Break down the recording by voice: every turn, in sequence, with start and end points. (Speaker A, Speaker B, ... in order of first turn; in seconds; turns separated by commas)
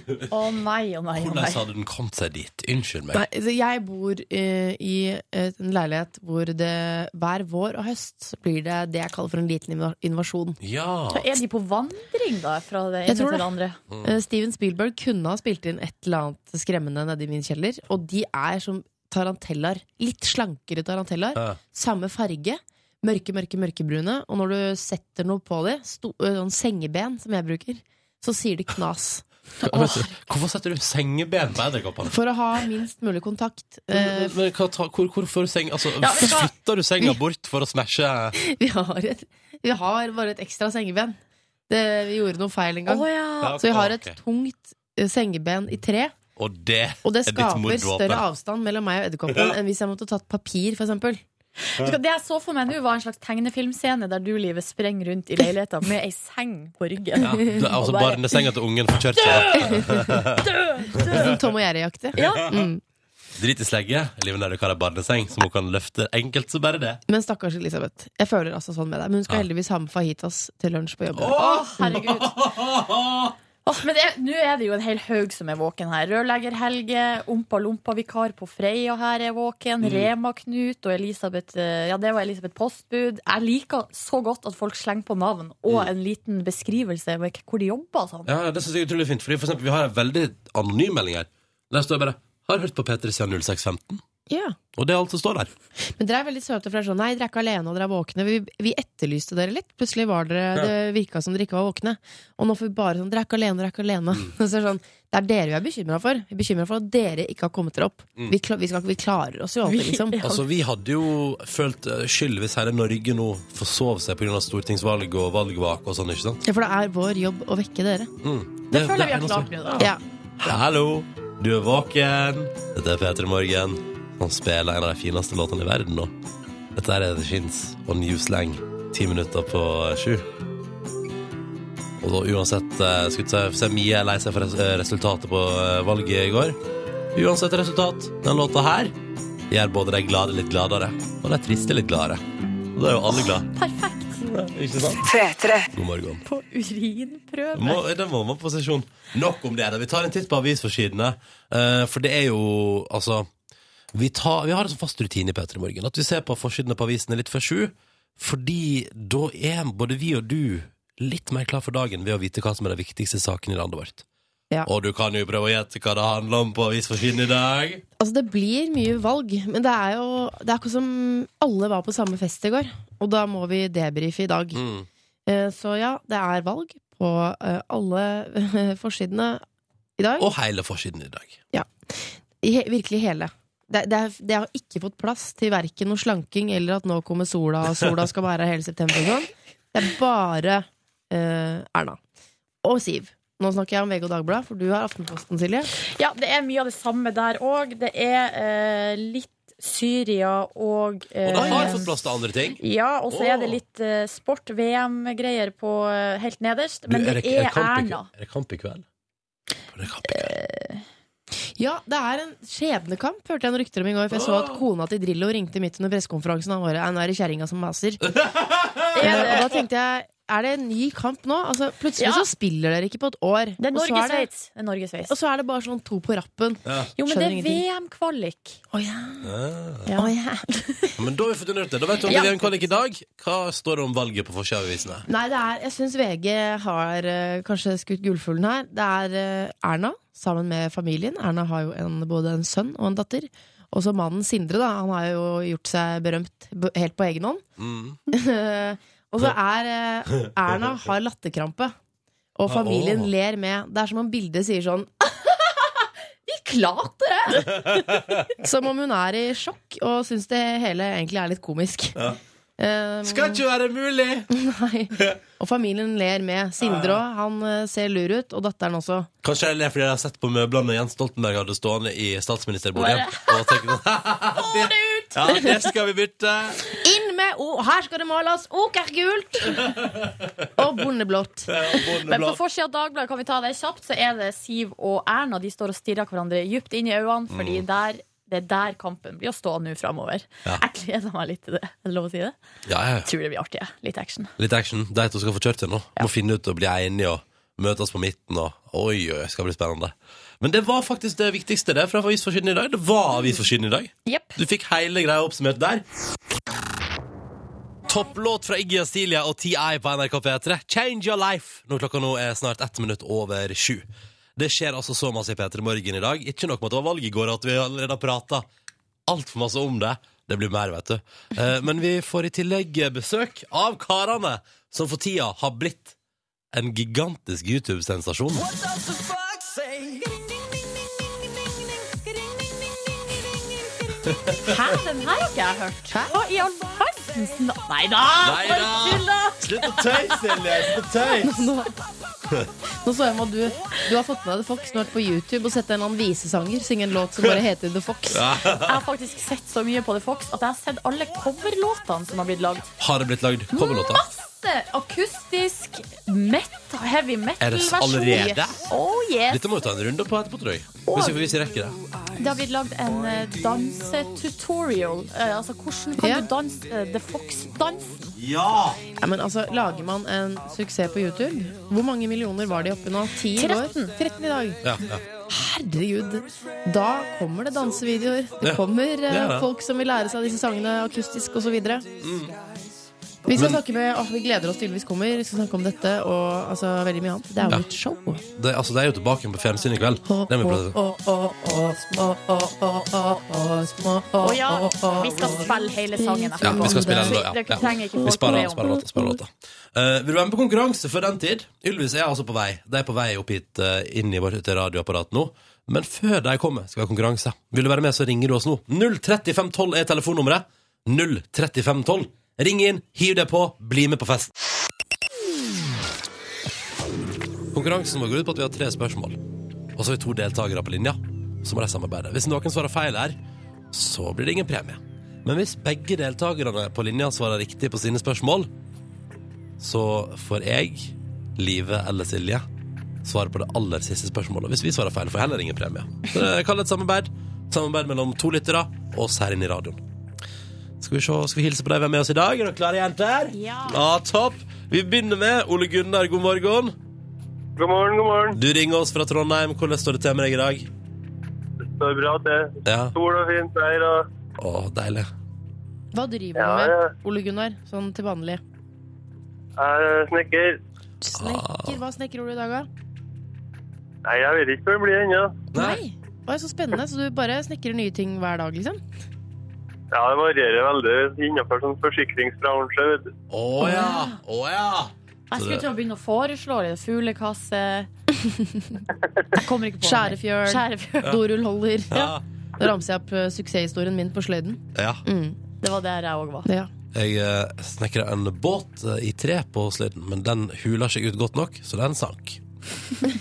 Speaker A: 0.3-1.6, Speaker B: 1.1-3.2, Speaker C: 3.1-10.6, Speaker B: 10.6-11.3, Speaker A: 11.1-13.8, Speaker C: 13.1-13.5, Speaker C: 14.0-29.2, Speaker B: 29.6-32.1, Speaker C: 32.1-34.4, Speaker B: 33.9-38.4, Speaker A: 36.0-36.5, Speaker C: 38.4-41.2, Speaker C: 41.7-43.0, Speaker A: 42.9-43.6, Speaker B: 43.4-44.1, Speaker C: 43.6-46.1, Speaker B: 46.4-48.2, Speaker C: 47.0-51.2, Speaker A: 51.7-58.2, Speaker B: 57.2-60.4, Speaker A: 59.3-59.7, Speaker C: 59.5-60.2, Speaker A: 60.4-61.3, Speaker C: 61.0-62.8, Speaker B: 61.0-61.3, Speaker A: 62.1-62.5, Speaker B: 63.4-67.0, Speaker C: 67.1-72.1, Speaker B: 71.2-73.3, Speaker A: 71.3-72.3, Speaker A: 73.7-88.3, Speaker B: 79.8-80.1, Speaker B: 88.3-94.0, Speaker C: 94.3-94.6, Speaker B: 94.8-95.5, Speaker C: 95.9-110.2, Speaker A: 109.7-110.4, Speaker B: 110.2-116.4, Speaker C: 116.4-118.1, Speaker B: 118.2-126.1, Speaker A: 118.7-119.9, Speaker B: 126.8-130.2, Speaker B: 132.0-136.6, Speaker B: 137.1-138.9, Speaker B: 139.5-142.2, Speaker B: 142.8-143.5, Speaker A: 143.5-144.3, Speaker B: 144.2-145.1, Speaker B: 145.7-146.2, Speaker A: 146.2-147.8, Speaker B: 147.5-153.3, Speaker B: 153.9-164.0, Speaker B: 164.7-167.8, Speaker C: 168.0-174.6, Speaker B: 174.5-174.9, Speaker C: 175.2-179.4, Speaker C: 180.0-180.3, Speaker B: 180.2-181.4, Speaker C: 181.5-192.0, Speaker C: 192.6-195.7, Speaker A: 195.8-201.9, Speaker B: 201.2-203.6, Speaker C: 201.3-201.8, Speaker A: 202.6-208.1, Speaker B: 206.9-208.8, Speaker B: 209.7-210.3, Speaker A: 210.1-210.8, Speaker C: 211.6-218.1, Speaker B: 214.1-214.6, Speaker B: 218.1-219.4, Speaker A: 218.9-219.5, Speaker C: 218.9-224.3, Speaker A: 222.0-222.3, Speaker A: 223.6-225.1, Speaker C: 225.1-227.6, Speaker B: 226.7-226.9, Speaker A: 227.0-228.6, Speaker C: 228.7-229.3, Speaker B: 229.2-229.9, Speaker A: 229.9-230.9, Speaker C: 229.9-230.9, Speaker B: 230.9-235.1, Speaker A: 232.1-232.5, Speaker C: 235.1-247.4, Speaker B: 247.6-248.0, Speaker C: 248.1-251.7, Speaker C: 252.3-255.1, Speaker B: 252.5-253.1, Speaker A: 256.3-258.0, Speaker B: 257.5-258.1, Speaker C: 258.4-262.0, Speaker C: 262.6-263.4, Speaker B: 263.0-264.3, Speaker C: 264.3-269.1, Speaker B: 266.6-267.0, Speaker B: 269.2-276.6, Speaker A: 272.8-273.7, Speaker A: 274.3-275.5, Speaker C: 276.8-279.8, Speaker B: 279.7-280.5, Speaker C: 280.6-281.5, Speaker B: 281.5-282.4, Speaker A: 282.1-292.3, Speaker B: 287.3-287.6, Speaker B: 292.7-293.1, Speaker A: 293.0-294.3, Speaker B: 294.4-305.8, Speaker A: 304.1-304.4, Speaker B: 307.9-313.8, Speaker B: 314.4-318.4, Speaker B: 319.1-325.9, Speaker B: 326.5-328.5, Speaker B: 334.1-334.4, Speaker A: 334.4-340.7, Speaker C: 335.9-336.1, Speaker B: 338.2-341.4, Speaker C: 341.2-341.7, Speaker C: 342.8-348.3, Speaker B: 348.1-348.8, Speaker A: 348.6-352.7, Speaker B: 352.8-354.0, Speaker A: 353.5-359.4, Speaker B: 357.4-358.6, Speaker B: 359.3-361.8, Speaker A: 360.9-361.2, Speaker A: 362.2-368.2, Speaker C: 366.0-366.3, Speaker B: 368.2-368.8, Speaker C: 369.0-374.6, Speaker A: 373.4-373.9, Speaker B: 374.6-375.0, Speaker C: 375.3-381.9, Speaker B: 378.4-379.5, Speaker B: 382.0-382.3, Speaker C: 383.3-388.2, Speaker B: 383.3-383.6, Speaker B: 388.3-390.8, Speaker C: 390.1-397.3, Speaker A: 394.2-398.8, Speaker B: 396.4-414.3, Speaker B: 417.5-419.2, Speaker B: 419.8-423.1, Speaker B: 423.7-428.5, Speaker B: 429.6-432.4, Speaker B: 433.0-439.8, Speaker B: 440.8-446.7, Speaker A: 443.3-443.8, Speaker D: 447.6-448.4, Speaker B: 448.3-450.7, Speaker D: 451.6-454.1, Speaker B: 452.6-452.9, Speaker B: 454.4-455.1, Speaker C: 455.9-458.4, Speaker D: 456.4-456.9, Speaker D: 459.6-460.6, Speaker C: 461.0-462.7, Speaker B: 461.2-461.8, Speaker D: 464.0-465.4, Speaker B: 465.5-465.8, Speaker C: 465.5-468.8, Speaker D: 469.9-473.1, Speaker B: 473.3-475.6, Speaker C: 473.6-473.9, Speaker A: 473.7-474.0, Speaker A: 475.3-477.9, Speaker C: 478.2-478.8, Speaker A: 479.3-481.2, Speaker C: 479.8-485.4, Speaker B: 481.9-482.2, Speaker B: 484.7-485.0, Speaker A: 485.6-486.5, Speaker C: 486.4-486.7, Speaker B: 486.9-492.4